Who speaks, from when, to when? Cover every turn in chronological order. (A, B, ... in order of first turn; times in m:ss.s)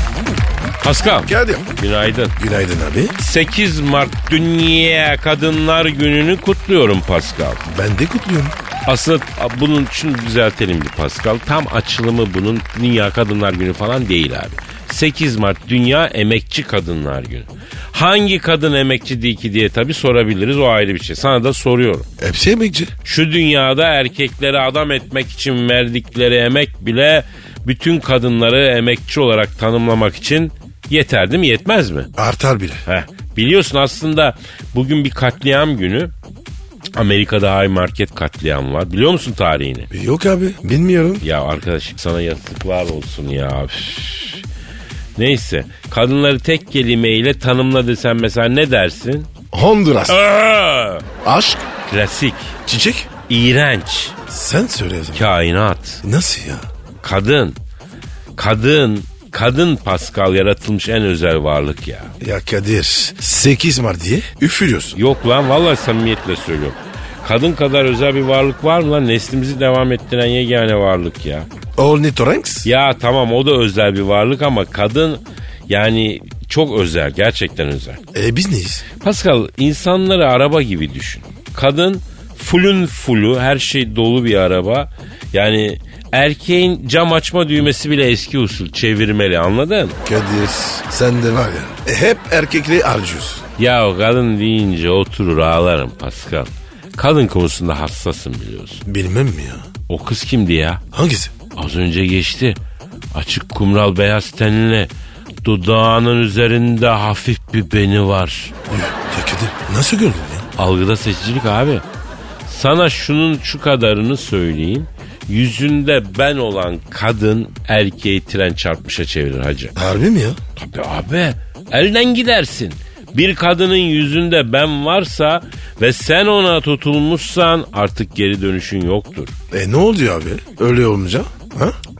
0:00.8-0:02.4 A
0:01.3-0:01.7 B
0:02.4-0:03.2 B
0:03.2-0:07.6 A
0:07.7-0:08.6 B
0:08.9-0:22.1 A
0:22.2-0:22.9 B
0:23.0-0:32.1 A
0:32.2-0:32.8 B
0:32.9-0:36.1 A
0:37.0-0:39.9 A
0:39.9-0:41.2 B
0:41.2-0:44.4 A
0:45.2-0:49.3 A
0:49.5-0:50.2 B
0:50.1-0:51.0 A
0:51.2-0:51.7 B
0:51.9-0:52.6 A
0:52.7-0:53.1 B
0:53.3-0:54.2 A
0:54.3-0:55.2 B
0:55.1-0:56.0 A
0:56.0-0:56.7 B
0:57.0-0:57.6 A
0:58.4-1:02.1 A
1:02.2-1:05.0 B
1:05.0-1:11.5 A
1:11.8-1:12.7 B
1:12.6-1:18.0 A
1:18.1-1:18.8 B
1:19.0-1:30.0 A
1:30.0-1:33.4 B
1:33.6-1:38.8 A
1:38.9-1:39.7 B
1:39.9-1:40.8 A
1:40.9-1:41.3 B
1:41.6-1:42.6 A
1:43.1-1:44.9 A
1:45.4-1:48.5 A
1:48.7-1:50.5 B
1:50.6-1:51.8 A
1:52.5-1:59.7 A
1:59.8-2:00.4 B
2:00.6-2:09.3 A
2:09.5-2:11.8 B